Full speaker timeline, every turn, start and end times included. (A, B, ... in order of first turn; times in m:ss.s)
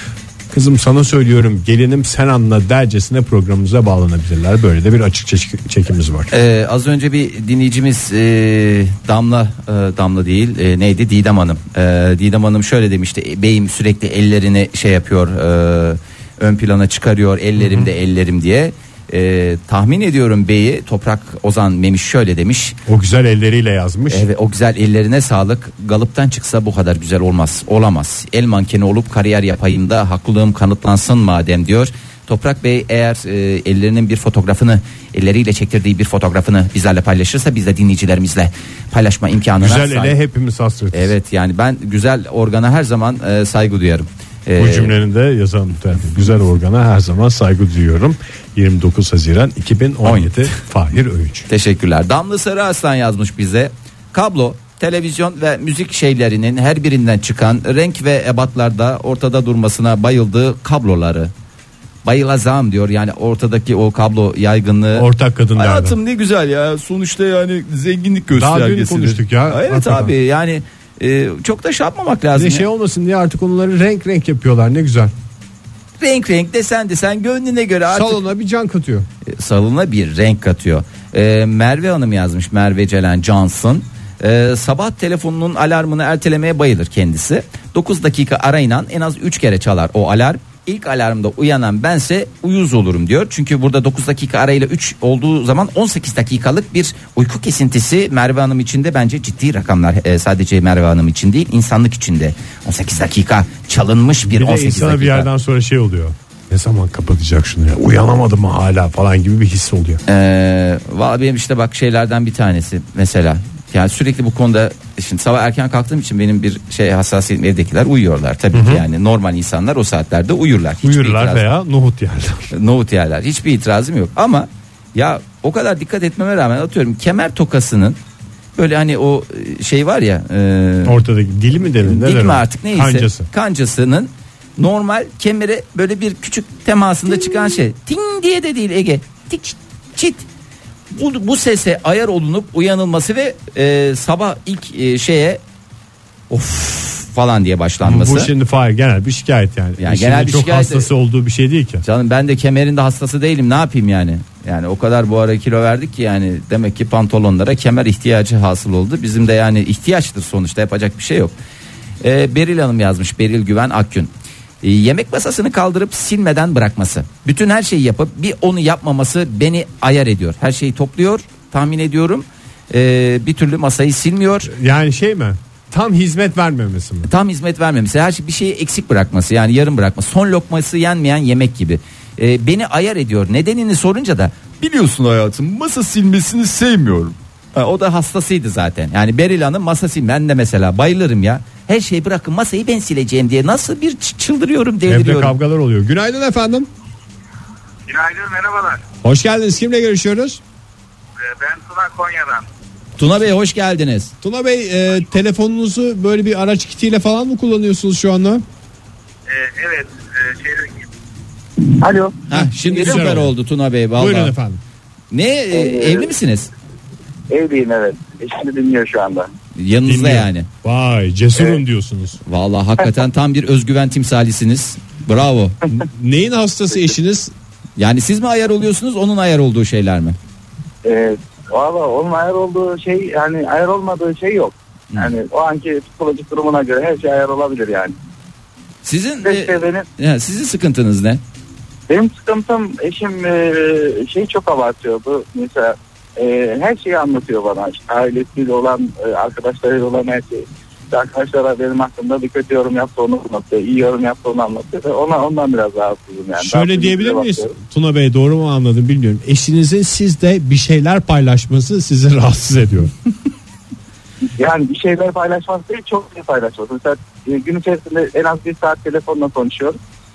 0:00.5-0:06.3 A
0:06.3-0:22.8 B
0:17.6-0:17.9 A
0:22.9-0:24.2 A
0:24.1-0:40.2 B
0:39.6-0:41.1 A
0:40.9-0:44.9 B
0:44.6-0:51.5 A
0:50.0-0:50.6 B
0:51.5-1:01.3 B
1:02.0-1:12.6 B
1:04.9-1:06.0 A
1:08.3-1:10.1 A
1:12.3-1:15.1 A
1:16.0-1:18.2 B
1:17.9-1:19.1 A
1:19.2-1:45.3 B
1:44.2-1:50.0 A
1:50.1-2:01.4 B
1:58.5-1:58.8 A
2:00.8-2:02.5 A
2:02.5-2:08.0 B
2:08.6-2:11.0 B
2:10.8-2:13.3 A
2:11.8-2:20.2 B
2:20.9-2:25.4 B
2:26.3-2:28.3 B
2:27.8-2:31.8 A
2:29.8-2:30.9 B
2:31.8-2:41.3 B
2:42.0-2:44.1 B
2:44.6-2:54.5 B
2:54.5-2:57.1 A
2:57.1-3:15.4 B
3:14.9-3:16.7 A
3:17.9-3:18.8 C
3:19.0-3:20.4 A
3:21.2-3:22.4 C
3:23.0-3:24.1 B
3:24.2-3:28.4 A
3:29.3-3:30.8 C
3:31.7-3:32.2 C
3:32.3-3:34.3 B
3:32.3-3:33.3 A
3:33.9-3:34.6 A
3:35.1-3:36.5 B
3:35.5-3:36.1 C
3:37.3-3:39.3 C
3:39.6-3:40.5 B
3:39.9-3:42.2 A
3:42.2-3:45.6 B
3:45.7-3:47.3 A
3:47.8-3:50.2 B
3:50.8-3:57.9 C
3:58.8-4:01.2 B
3:59.2-3:59.8 C
4:01.9-4:17.5 C
4:16.4-4:22.9 A
4:24.4-4:29.8 C